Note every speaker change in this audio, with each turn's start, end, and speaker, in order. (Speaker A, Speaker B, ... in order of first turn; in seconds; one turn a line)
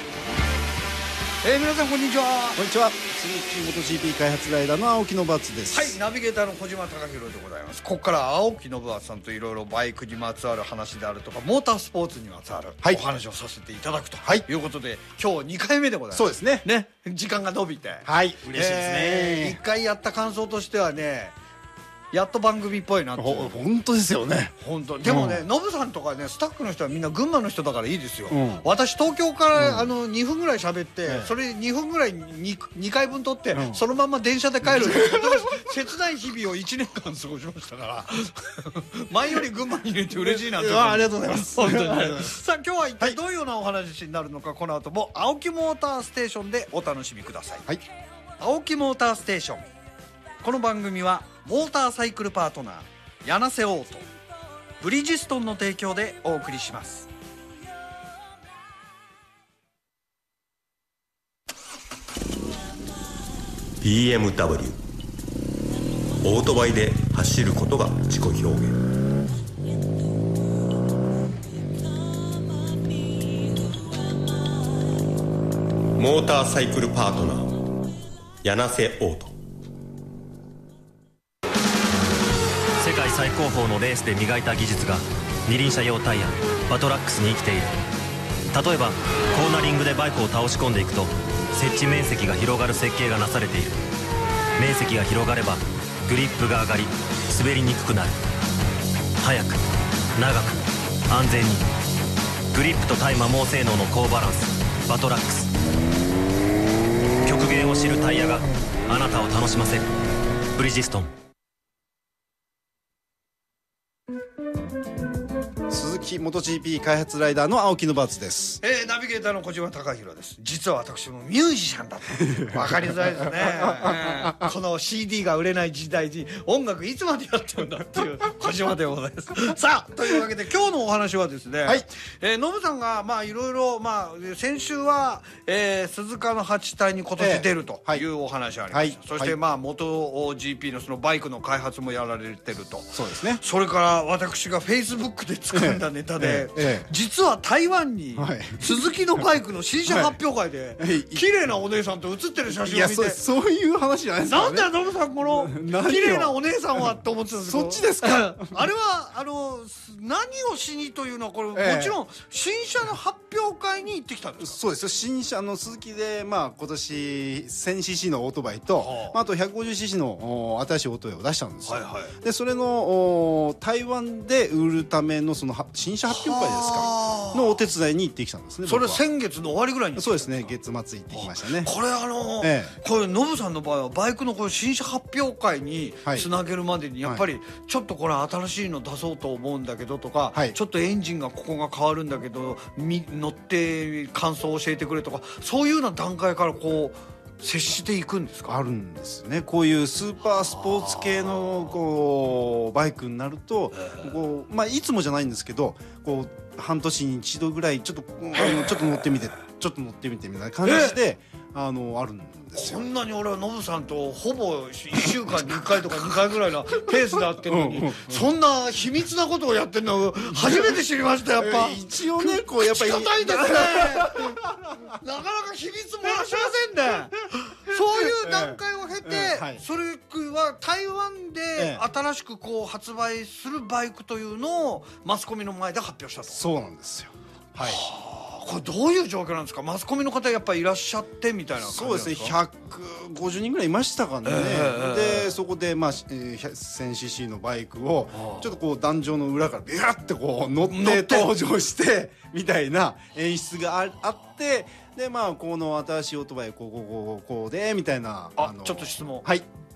Speaker A: 1.4-2.6
Speaker B: 2.6-6.0
Speaker A: 5.7-21.4
Speaker B: 16.1-16.6
Speaker B: 18.1-19.6
Speaker A: 22.1-23.6
Speaker B: 23.2-25.4
Speaker A: 24.6-47.7
Speaker B: 28.3-28.7
Speaker B: 29.6-29.9
Speaker B: 31.1-31.3
Speaker B: 33.5-33.8
Speaker B: 34.6-35.6
Speaker B: 40.2-42.3
Speaker A: 48.4-49.7
Speaker A: 50.4-54.1
Speaker A: 54.8-57.1
Speaker C: 63.8-64.8
Speaker C: 66.2-68.8
Speaker C: 76.0-77.5
Speaker C: 78.4-79.3
Speaker D: 82.8-87.7
Speaker D: 88.5-93.8
Speaker D: 94.6-98.2
Speaker D: 99.2-99.6
Speaker D: 100.2-101.6
Speaker D: 102.5-105.5
Speaker D: 107.2-109.9
Speaker D: 110.6-111.1
Speaker B: 115.7-118.6
Speaker A: 118.6-153.2
Speaker B: 122.3-124.5
Speaker B: 137.2-138.1
Speaker B: 138.7-139.3
Speaker B: 142.9-143.4
Speaker B: 145.5-146.9
Speaker B: 148.2-149.3
Speaker B: 149.8-150.2
Speaker B: 150.8-151.2
Speaker B: 152.5-158.6
Speaker A: 154.2-164.6
Speaker B: 161.5-162.0
Speaker B: 164.4-179.0
Speaker A: 168.8-169.2
Speaker A: 171.7-172.1
Speaker A: 176.1-177.6
Speaker A: 178.7-180.6
Speaker B: 180.0-181.7
Speaker A: 181.1-198.6
Speaker B: 182.4-182.8
Speaker B: 198.5-212.9
Speaker A: 208.3-209.2
Speaker A: 210.7-211.0
Speaker A: 212.6-236.4
Speaker B: 217.4-218.3
Speaker B: 220.3-220.8
Speaker B: 221.4-224.6
Speaker B: 228.0-229.6
Speaker B: 231.6-231.8
Speaker B: 236.3-237.8
Speaker A: 237.6-242.4
Speaker B: 241.6-259.5
Speaker A: 244.2-245.3
Speaker A: 248.1-248.5
Speaker A: 250.7-251.3
Speaker A: 258.4-259.3